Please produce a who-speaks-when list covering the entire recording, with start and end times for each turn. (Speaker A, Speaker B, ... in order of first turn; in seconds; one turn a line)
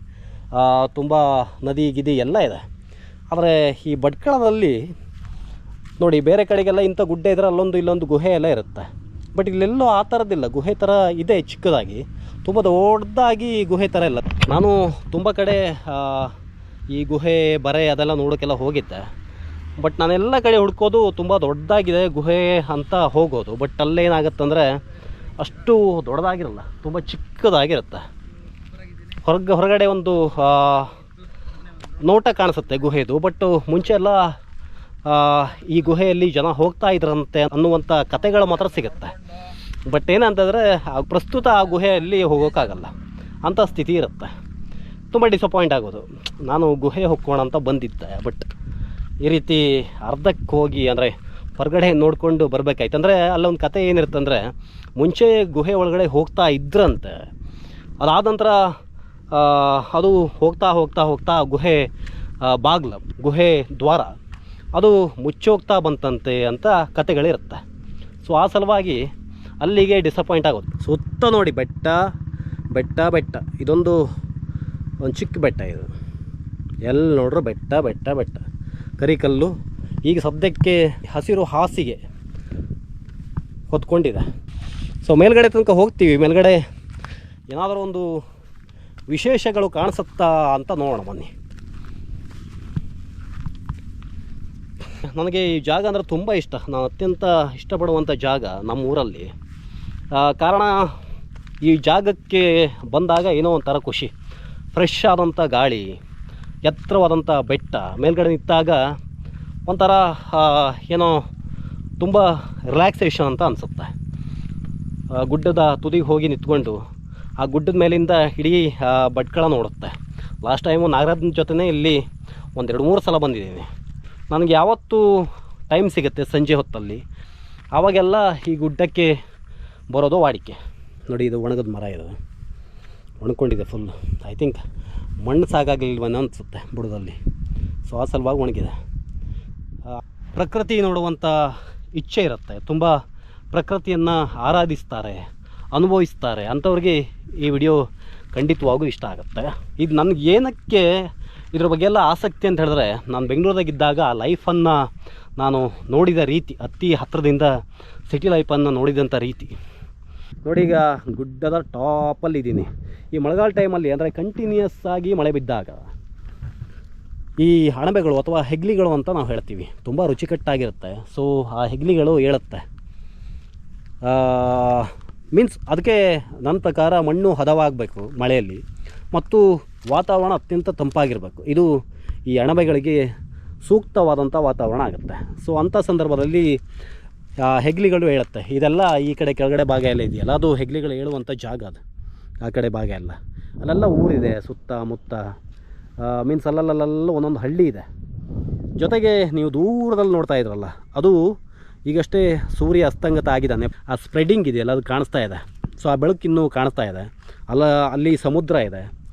Speaker A: 0.5-2.6
Speaker A: 3.3-4.8
Speaker A: 6.0-16.3
Speaker A: 16.9-19.1
Speaker A: 19.8-24.8
Speaker A: 25.4-28.0
Speaker A: 29.1-31.0
Speaker A: 31.8-34.3
Speaker A: 35.0-39.2
Speaker A: 39.9-42.9
Speaker A: 43.5-44.3
Speaker A: 45.1-48.5
Speaker A: 49.2-57.2
Speaker A: 58.0-58.7
Speaker A: 59.3-61.9
Speaker A: 62.4-64.1
Speaker A: 64.7-67.6
Speaker A: 68.2-69.0
Speaker A: 69.6-72.1
Speaker A: 72.7-74.0
Speaker A: 75.0-75.9
Speaker A: 76.9-78.4
Speaker A: 79.0-79.5
Speaker A: 80.0-82.0
Speaker A: 83.7-84.2
Speaker A: 85.0-86.6
Speaker A: 87.5-88.2
Speaker A: 89.1-91.3
Speaker A: 95.1-99.3
Speaker A: 100.1-100.9
Speaker A: 101.6-104.1
Speaker A: 104.7-105.9
Speaker A: 106.7-108.8
Speaker A: 109.7-111.2
Speaker A: 112.0-113.9
Speaker A: 115.1-116.8
Speaker A: 117.4-122.0
Speaker A: 122.6-123.7
Speaker A: 124.3-127.0
Speaker A: 127.8-129.1
Speaker A: 129.9-132.1
Speaker A: 133.2-134.6
Speaker A: 135.2-137.2
Speaker A: 137.9-138.7
Speaker A: 140.3-143.0
Speaker A: 143.5-147.8
Speaker A: 148.3-151.0
Speaker A: 151.5-154.8
Speaker A: 155.4-157.5
Speaker A: 158.1-159.5
Speaker A: 160.4-165.9
Speaker A: 167.4-172.6
Speaker A: 174.0-178.6
Speaker A: 179.1-181.7
Speaker A: 182.3-183.0
Speaker A: 183.6-186.6
Speaker A: 187.4-191.8
Speaker A: 192.4-195.3
Speaker A: 196.0-197.8
Speaker A: 198.8-201.3
Speaker A: 201.9-208.9